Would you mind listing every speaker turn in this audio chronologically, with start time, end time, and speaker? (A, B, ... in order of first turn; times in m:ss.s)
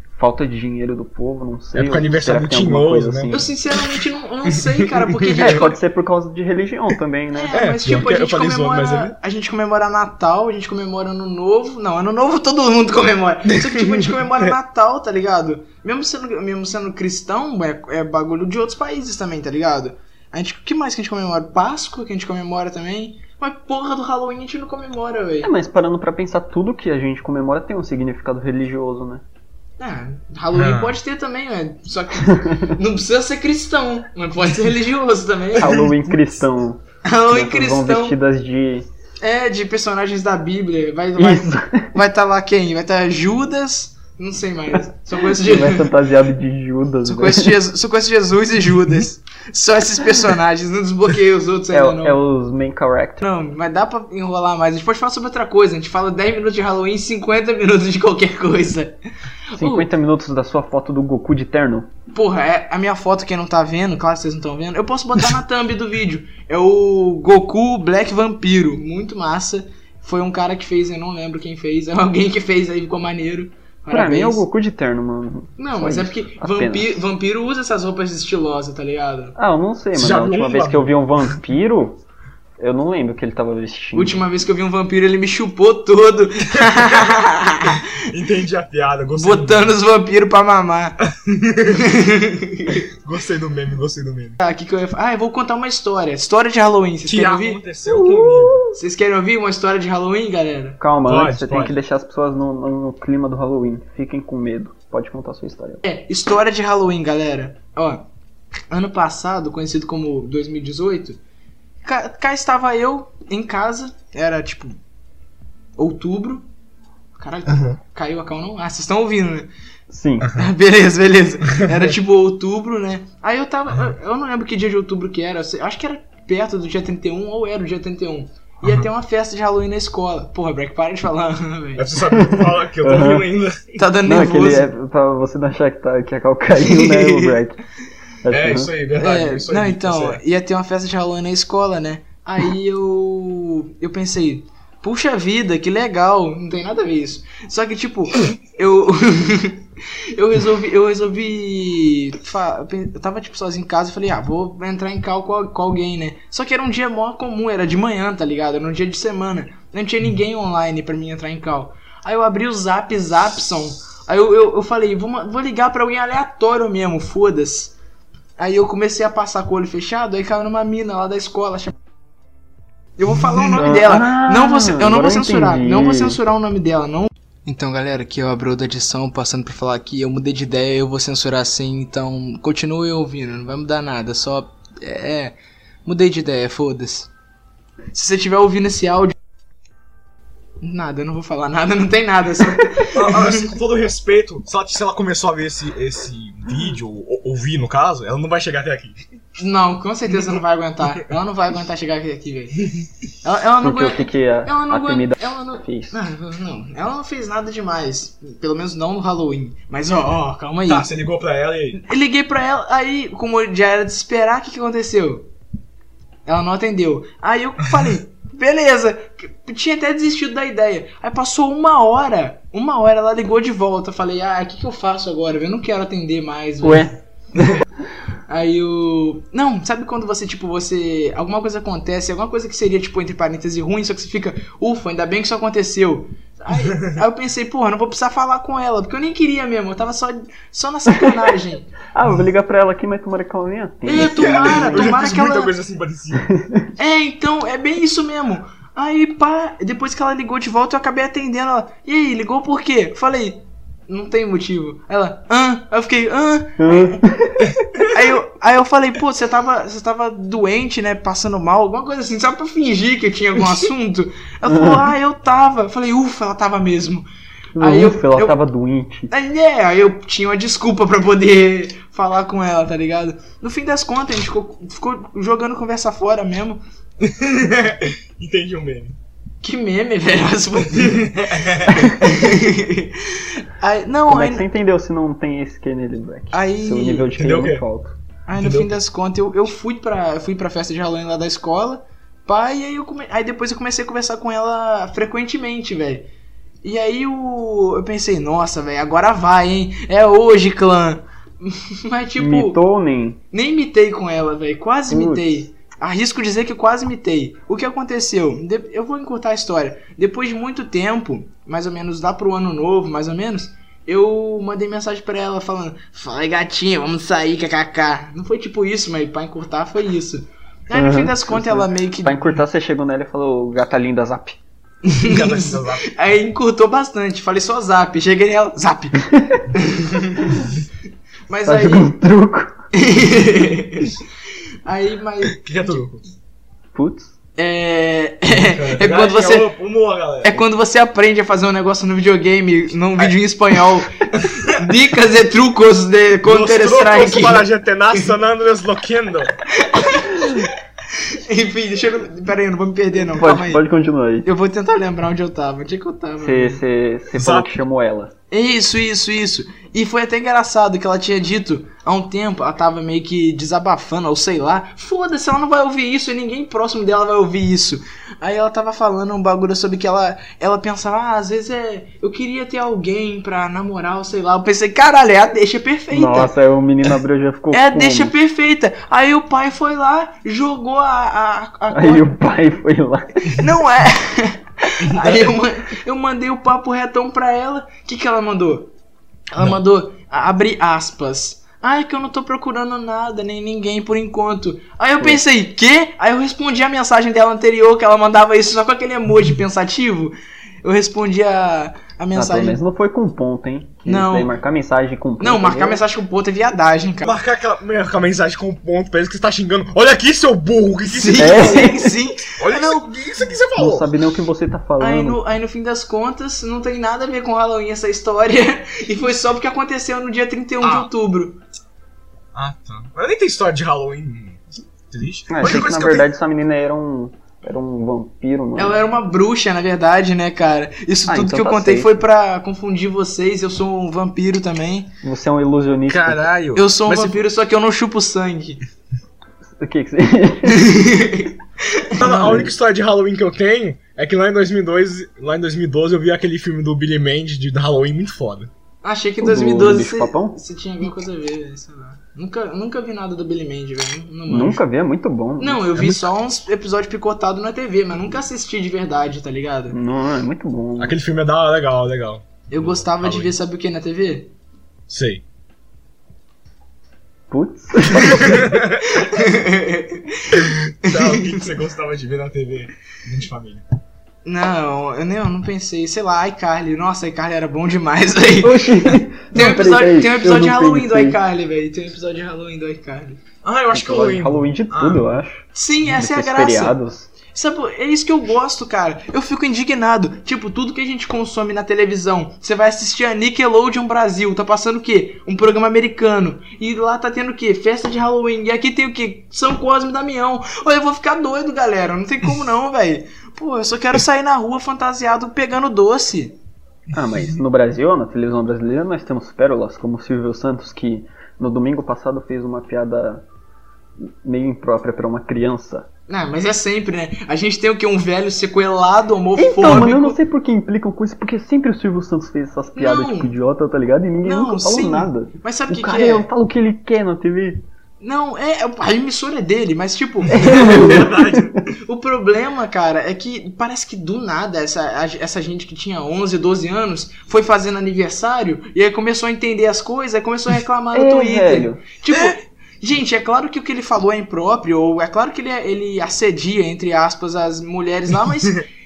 0:00.2-0:03.5 A
0:01.7-0:03.4 B
0:03.3-0:05.8 C
0:04.6-0:05.7 B
0:05.3-0:07.7 A
0:07.3-0:25.5 C
0:07.5-0:09.1 B
0:13.5-0:14.5 B
0:25.4-0:29.2 A
0:29.8-0:35.8 C
0:30.5-0:30.9 B
0:32.2-0:32.7 A
0:35.6-0:38.9 A
0:35.6-0:35.9 B
0:37.0-0:38.2 C
0:39.2-0:46.0 C
0:41.2-0:41.9 A
0:45.2-0:47.6 A
0:47.0-0:52.2 C
0:51.7-0:53.2 A
0:53.2-0:59.0 C
0:59.5-0:59.9 C
0:59.6-1:01.9 A
1:02.1-1:14.4 C
1:13.9-1:17.0 A
1:15.6-1:19.4 C
1:19.4-1:22.0 A
1:19.9-1:21.3 B
1:22.6-1:24.2 A
1:23.9-1:27.9 C
1:27.9-1:29.8 B
1:29.1-1:31.0 C
1:31.1-1:31.8 B
1:31.6-1:32.8 C
1:33.0-1:34.4 B
1:34.4-1:37.6 C
1:37.0-1:38.6 B
1:37.8-1:38.7 A
1:38.7-1:40.8 C
1:40.8-1:45.8 A
1:41.0-1:41.8 B
1:45.8-1:48.0 C
1:48.7-1:51.2 C
1:51.8-1:54.8 C
1:55.8-1:56.4 C
1:57.2-1:59.5 C
1:57.5-1:57.8 B
1:59.9-2:00.3 A
2:00.2-2:00.5 B
2:00.3-2:11.9 C
2:01.5-2:01.9 B
2:11.8-2:13.8 B
2:12.1-2:13.3 A
2:13.8-2:14.7 C
2:14.0-2:17.6 A
2:16.6-2:17.4 C
2:18.2-2:18.7 A
2:18.3-2:20.2 B
2:19.0-2:47.7 C
2:48.4-2:51.7 C
2:53.0-3:07.1 C
2:53.6-2:56.2 A
3:07.9-3:09.1 C
3:10.6-3:13.5 C
3:12.9-3:19.0 B
3:19.4-3:22.7 C
3:23.2-3:30.9 C
3:23.6-3:26.0 A
3:30.7-3:31.8 B
3:31.8-3:35.3 C
3:36.2-3:46.9 C
3:46.6-3:47.6 A
3:48.3-4:01.7 C
4:00.9-4:01.2 A
4:01.9-4:05.0 A
4:03.8-4:05.5 C
4:03.9-4:06.3 B
4:06.2-4:06.7 A
4:06.8-4:17.0 C
4:16.6-4:17.5 A
4:17.9-4:27.0 C
4:24.4-4:24.9 A
4:27.6-4:29.1 A
4:27.6-4:28.4 C
4:29.1-4:36.6 C
4:37.0-4:38.9 B
4:39.4-4:44.4 C
4:41.2-4:41.7 B
4:44.1-4:47.9 A
4:46.3-4:47.1 C
4:47.2-4:47.6 B
4:48.3-4:56.1 C
4:48.4-4:48.7 B
4:56.6-5:02.6 C
5:02.2-5:03.2 A
5:03.3-5:22.4 C
5:04.9-5:05.4 A
5:20.7-5:24.4 A
5:24.8-5:30.5 C
5:25.0-5:25.9 B
5:29.1-5:29.4 A
5:31.3-5:31.9 C
5:31.4-5:32.5 A
5:32.7-5:34.0 C
5:34.6-5:35.5 C
5:35.3-5:36.0 B
5:36.7-5:37.1 A
5:37.4-5:39.5 C
5:38.3-5:40.4 B
5:40.2-5:48.1 C
5:44.2-5:44.5 B
5:46.2-5:49.3 B
5:49.5-5:53.6 C
5:53.0-5:54.3 A
5:54.2-5:56.6 C
5:56.2-5:58.1 A
5:57.1-5:57.5 B
5:58.3-6:16.3 C
6:15.9-6:18.1 A
6:17.5-6:22.1 C
6:21.7-6:23.4 A
6:23.2-6:28.7 C
6:24.8-6:25.3 B
6:29.3-6:42.6 C
6:42.1-6:45.8 A
6:43.8-6:44.3 C
6:45.2-6:47.2 C
6:47.0-6:51.7 B
6:50.8-6:52.8 C
6:51.2-6:51.9 A
6:52.3-6:53.9 B
6:53.6-6:55.2 A
6:54.8-7:01.4 C
7:00.6-7:00.9 B
7:02.3-7:06.1 B
7:05.3-7:08.8 A
7:08.6-7:14.9 C
7:11.1-7:12.0 A
7:15.0-7:16.3 A
7:15.9-7:17.2 B
7:16.5-7:18.6 C
7:19.6-7:20.7 A
7:20.4-7:22.5 C
7:22.0-7:28.5 B
7:22.0-7:22.5 A
7:28.8-7:34.6 C
7:29.2-7:30.4 A
7:34.3-7:35.7 A
7:35.4-7:39.8 C
7:35.8-7:36.0 B
7:39.7-7:41.0 A
7:40.8-7:43.3 B
7:42.5-7:44.3 C
7:44.9-7:45.2 B
7:47.3-7:48.5 A
7:48.1-7:49.1 B
7:48.9-7:51.4 C
7:50.4-7:53.6 B
7:54.2-8:03.2 C
7:58.4-8:01.2 A
8:03.4-8:05.0 B
8:03.7-8:07.1 A
8:05.5-8:06.8 C
8:07.3-8:26.4 C
8:26.9-8:33.2 A
8:34.0-8:35.9 A
8:36.1-8:40.2 C
8:39.4-8:47.6 A
8:42.7-8:43.3 C
8:44.2-8:46.3 C
8:48.0-8:51.0 C
8:50.3-8:51.6 B
8:50.3-8:51.5 A
8:51.7-9:08.6 C
9:00.9-9:01.8 A
9:02.1-9:02.3 B